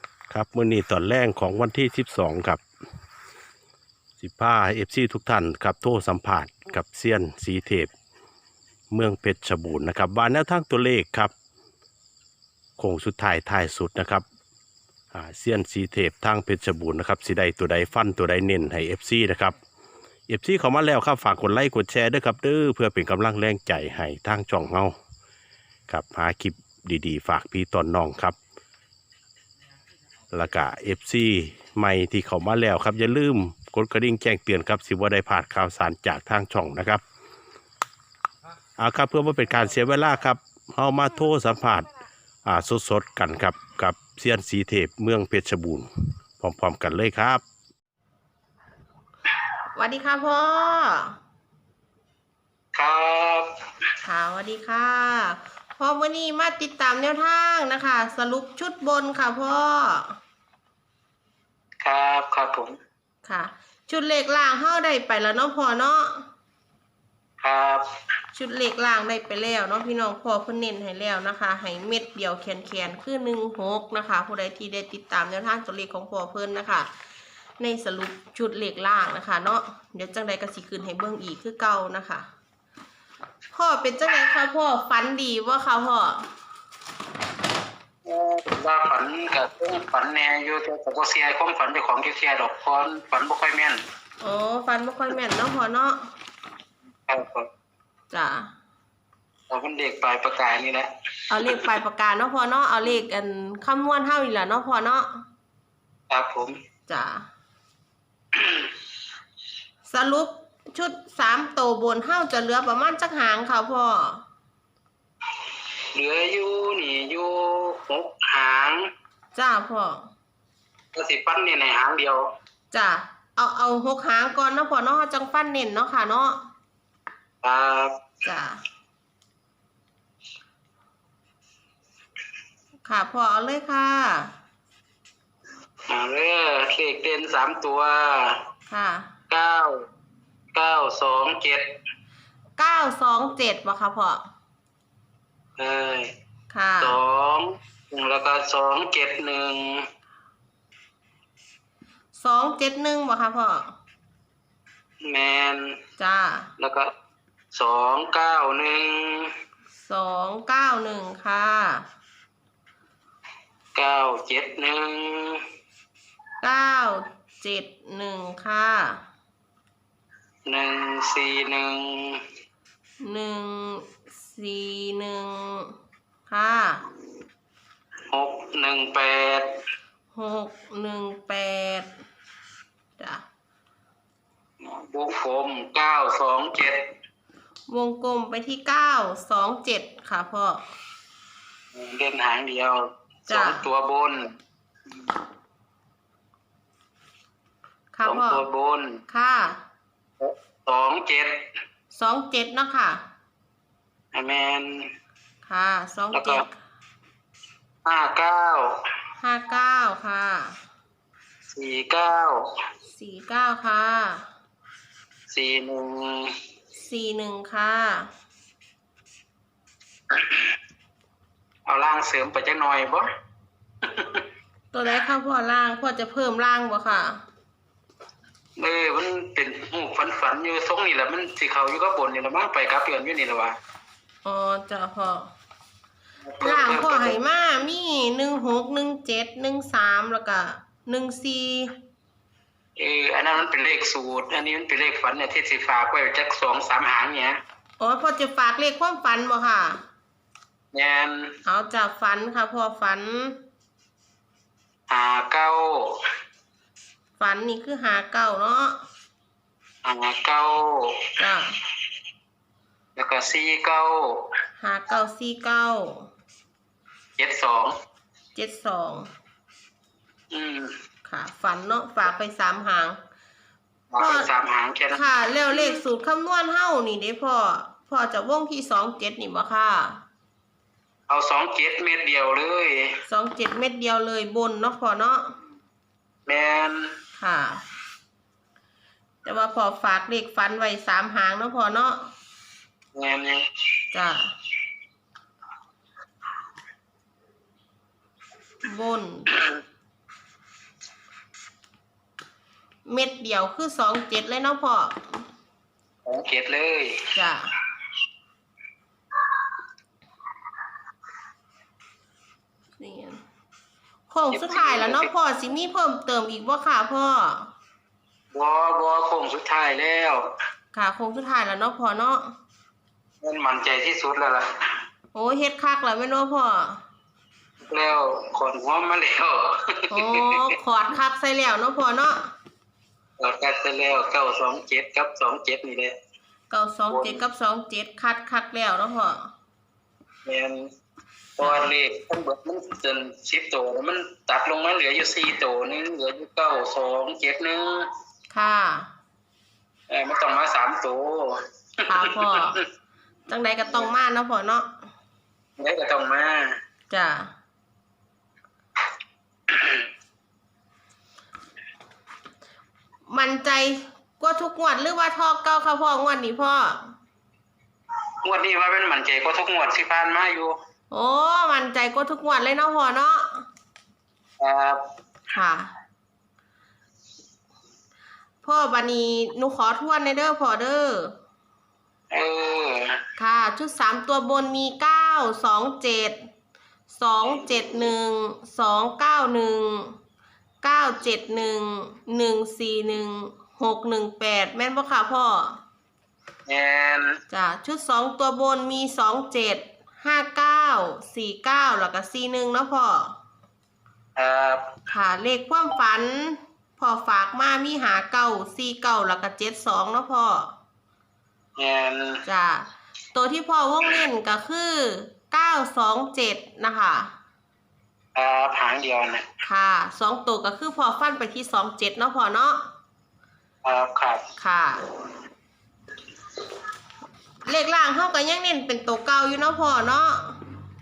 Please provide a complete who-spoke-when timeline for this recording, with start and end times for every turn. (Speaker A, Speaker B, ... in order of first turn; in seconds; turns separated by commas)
Speaker A: 0.3-2.6, Speaker A: 4.2-7.9, Speaker A: 8.9-11.3, Speaker A: 12.8-14.2, Speaker A: 15.1-19.6, Speaker A: 20.3-24.9, Speaker A: 25.9-28.4, Speaker A: 30.3-37.0, Speaker A: 38.8-41.9, Speaker A: 42.5-47.4, Speaker B: 49.8-51.2, Speaker C: 52.7-53.5, Speaker B: 54.0-60.2, Speaker C: 61.8-62.8, Speaker B: 63.2-66.3, Speaker C: 67.4-67.9, Speaker B: 68.3-76.9, Speaker B: 77.6-82.3, Speaker B: 83.5-86.3, Speaker C: 88.0-93.8, Speaker B: 94.2-96.1, Speaker C: 97.1-97.5, Speaker B: 98.1-98.5, Speaker C: 99.5-101.7, Speaker B: 101.3-105.2, Speaker C: 106.1-106.6, Speaker B: 106.9-107.3, Speaker C: 108.3-108.7, Speaker B: 109.9-114.2, Speaker C: 115.9-118.8, Speaker B: 119.3-120.1, Speaker C: 121.0-122.3, Speaker B: 122.7-126.4, Speaker C: 127.4-127.9, Speaker B: 128.2-128.6, Speaker B: 132.8-134.3, Speaker C: 135.9-138.4, Speaker B: 138.7-139.1, Speaker C: 139.3-139.8, Speaker C: 140.5-141.7, Speaker B: 142.6-144.2, Speaker C: 145.6-146.1, Speaker B: 146.5-147.0, Speaker C: 146.8-149.9, Speaker B: 152.2-153.7, Speaker C: 155.0-155.8, Speaker B: 156.0-156.5, Speaker C: 156.6-156.9, Speaker C: 157.5-159.3, Speaker B: 159.8-161.8, Speaker C: 163.8-165.4, Speaker B: 166.4-169.0, Speaker C: 170.5-172.2, Speaker B: 173.0-175.8, Speaker B: 176.3-176.8, Speaker C: 178.1-179.6, Speaker B: 180.1-181.9, Speaker C: 184.6-186.9, Speaker B: 187.7-190.7, Speaker C: 191.7-194.2, Speaker B: 193.3-193.7, Speaker B: 197.9-198.4, Speaker C: 198.0-198.9, Speaker B: 199.1-199.6, Speaker C: 200.2-201.4, Speaker B: 201.9-203.0, Speaker C: 204.1-204.9, Speaker B: 205.5-206.5, Speaker C: 206.1-206.4, Speaker C: 207.8-208.7, Speaker B: 209.2-210.6, Speaker C: 211.5-212.4, Speaker B: 212.9-214.3, Speaker C: 215.3-216.3, Speaker B: 216.8-218.1, Speaker C: 221.7-223.1, Speaker C: 223.8-224.2, Speaker B: 224.7-227.2, Speaker C: 228.6-233.6, Speaker B: 234.2-235.3, Speaker C: 236.2-237.2, Speaker B: 236.4-241.7, Speaker C: 242.8-247.4, Speaker B: 247.8-249.8, Speaker C: 250.7-251.3, Speaker B: 251.4-253.4, Speaker C: 254.9-255.9, Speaker B: 257.2-258.8, Speaker C: 259.8-261.0, Speaker B: 261.2-261.6, Speaker C: 263.0-264.3, Speaker B: 264.6-266.1, Speaker C: 267.2-267.8, Speaker B: 268.4-269.1, Speaker C: 270.3-270.7, Speaker B: 271.1-273.0, Speaker C: 273.9-275.8, Speaker B: 274.0-274.3, Speaker B: 274.9-280.0, Speaker C: 281.1-282.9, Speaker B: 283.1-285.4, Speaker C: 286.3-286.9, Speaker B: 287.2-287.6, Speaker B: 289.2-292.1, Speaker C: 292.9-293.4, Speaker B: 293.9-294.3, Speaker B: 298.6-299.4, Speaker B: 302.9-305.2, Speaker C: 306.1-307.0, Speaker B: 307.1-307.5, Speaker B: 312.8-313.2, Speaker B: 314.1-317.5, Speaker C: 314.3-315.1, Speaker C: 318.3-320.2, Speaker B: 320.7-322.3, Speaker C: 323.2-324.5, Speaker B: 325.1-326.8, Speaker C: 327.7-330.5, Speaker B: 329.9-332.2, Speaker C: 333.2-335.9, Speaker B: 336.5-339.3, Speaker C: 336.9-337.2, Speaker C: 340.2-340.6, Speaker C: 341.4-347.9, Speaker B: 341.4-341.7, Speaker B: 348.3-348.9, Speaker C: 349.9-352.3, Speaker B: 351.9-352.6, Speaker B: 353.3-354.7, Speaker C: 355.6-356.5, Speaker B: 356.9-357.3, Speaker C: 359.5-359.9, Speaker B: 363.1-366.9, Speaker C: 368.2-370.6, Speaker B: 370.9-373.5, Speaker C: 374.4-374.8, Speaker B: 375.3-375.7, Speaker B: 378.4-381.1, Speaker C: 382.1-382.9, Speaker B: 383.2-386.2, Speaker B: 386.9-389.9, Speaker C: 387.3-387.9, Speaker B: 390.6-395.6, Speaker C: 396.5-397.1, Speaker B: 397.3-403.1, Speaker C: 404.2-404.7, Speaker B: 404.9-410.5, Speaker C: 411.6-412.2, Speaker B: 412.2-417.1, Speaker C: 418.1-419.2, Speaker B: 419.4-422.6, Speaker C: 423.6-424.2, Speaker B: 424.4-424.8, Speaker B: 427.4-430.4